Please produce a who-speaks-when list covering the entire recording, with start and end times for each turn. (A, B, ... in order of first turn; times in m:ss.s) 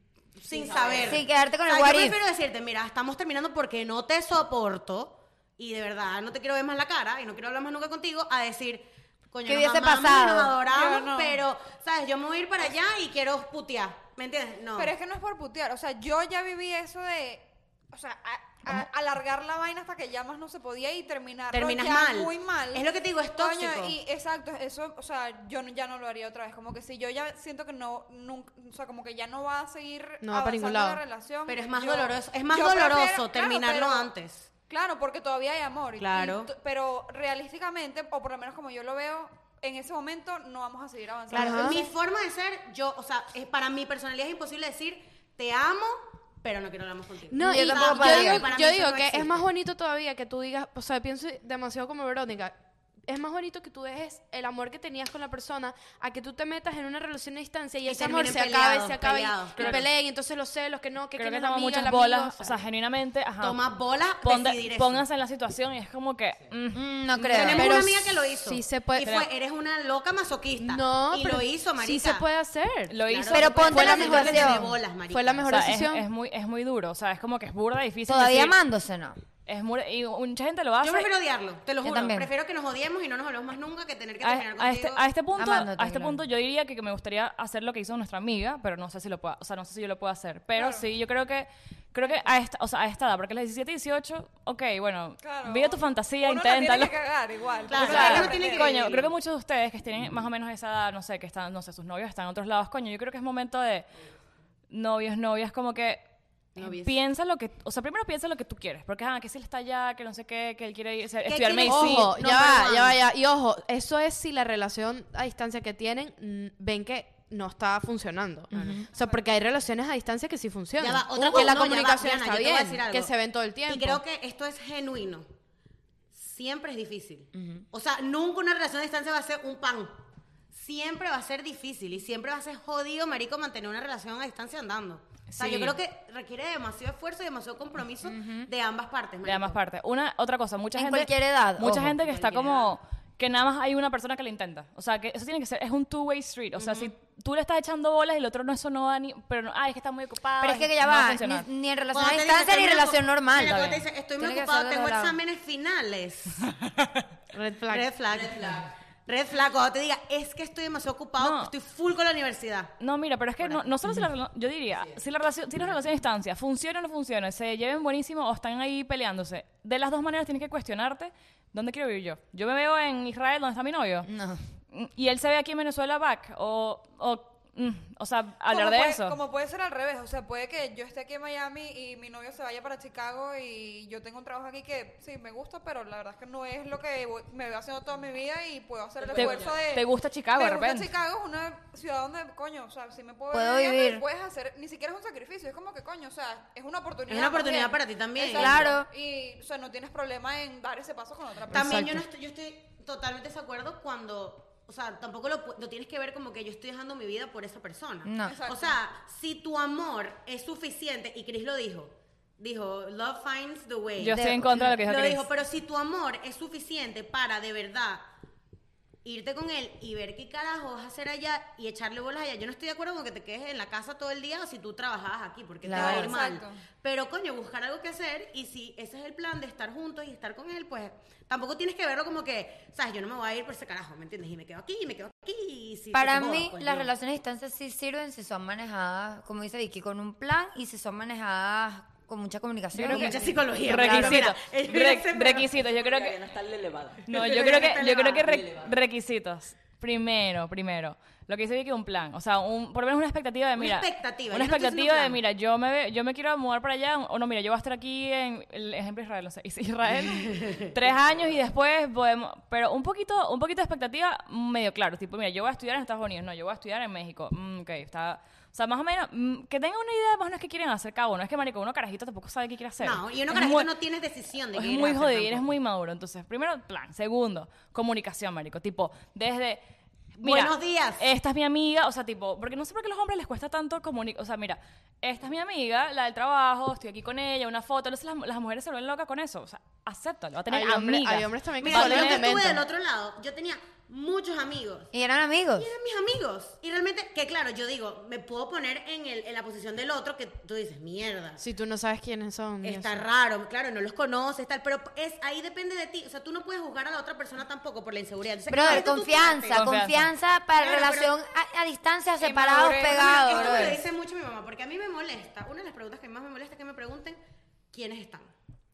0:00.4-0:14.9 A
0:00.5-0:01.2 B
0:01.0-0:02.2 C
0:09.4-0:10.6 C
0:10.6-0:11.4 D
0:14.7-0:34.1 D
0:21.5-0:24.0 A
0:30.2-0:31.0 E
0:31.5-0:34.5 A
0:34.7-0:41.9 D
0:36.0-0:36.5 A
0:41.3-0:41.8 E
0:41.3-0:49.4 A
0:47.3-0:52.6 E
0:47.4-0:48.5 C
0:53.1-1:02.6 E
0:57.8-0:59.8 A
0:59.6-0:59.8 F
1:01.2-1:03.6 F
1:03.4-1:05.0 A
1:04.2-1:06.8 F
1:06.7-1:07.8 C
1:07.1-1:12.2 A
1:07.4-1:09.2 E
1:10.6-1:13.0 E
1:12.9-1:14.3 F
1:13.0-1:15.7 A
1:13.3-1:14.7 C
1:13.7-1:16.1 E
1:15.5-1:18.6 F
1:18.0-1:19.2 C
1:19.4-1:21.1 F
1:20.8-1:25.0 A
1:21.8-1:22.3 C
1:24.2-1:37.0 F
1:25.4-1:26.2 C
1:30.5-1:30.9 D
1:35.2-1:38.8 D
1:37.7-1:39.1 A
1:37.7-1:43.9 F
1:37.8-1:38.3 B
1:44.7-1:46.0 F
1:46.6-1:47.0 A
1:46.6-1:52.2 F
1:51.2-1:53.0 A
1:51.7-2:04.0 E
1:58.5-1:58.9 C
1:58.5-1:58.8 A
2:00.8-2:03.1 A
2:03.7-2:05.3 A
2:06.1-2:19.6 A
2:07.3-2:07.6 C
2:15.3-2:15.8 F
2:18.0-2:18.5 C
2:19.2-2:31.5 F
2:20.8-2:22.0 C
2:22.0-2:22.7 A
2:26.6-2:26.9 A
2:30.4-2:35.2 C
2:31.9-2:36.5 A
2:33.4-2:33.8 F
2:37.3-2:37.9 E
2:37.7-2:42.7 A
2:38.1-2:38.7 B
2:41.2-2:41.5 F
2:42.8-2:54.1 F
2:44.7-2:45.0 B
2:54.1-2:54.4 C
2:54.7-2:59.2 F
2:58.5-3:21.9 D
3:09.0-3:09.8 B
3:09.1-3:10.9 F
3:13.3-3:14.0 C
3:17.1-3:18.7 A
3:18.3-3:18.9 C
3:21.5-3:38.0 A
3:21.5-3:22.0 E
3:28.0-3:28.4 C
3:28.2-3:28.8 D
3:34.0-3:35.3 F
3:39.0-3:56.9 A
3:45.6-3:46.1 C
3:45.7-3:46.6 D
3:55.9-4:04.2 C
4:02.7-4:06.2 F
4:02.9-4:05.5 A
4:05.5-4:08.7 B
4:07.1-4:33.7 F
4:07.1-4:08.2 A
4:13.6-4:15.2 A
4:20.2-4:20.7 A
4:32.8-4:35.5 A
4:34.5-4:39.6 F
4:40.2-4:41.1 A
4:40.2-4:52.4 F
4:50.5-4:52.6 E
4:51.6-4:54.9 A
4:54.9-4:55.7 C
4:55.6-5:01.4 A
5:01.4-5:03.0 E
5:02.6-5:09.6 A
5:08.5-5:13.8 C
5:09.5-5:10.1 F
5:10.6-5:11.1 A
5:12.2-5:13.8 D
5:12.9-5:17.2 A
5:17.7-5:18.3 A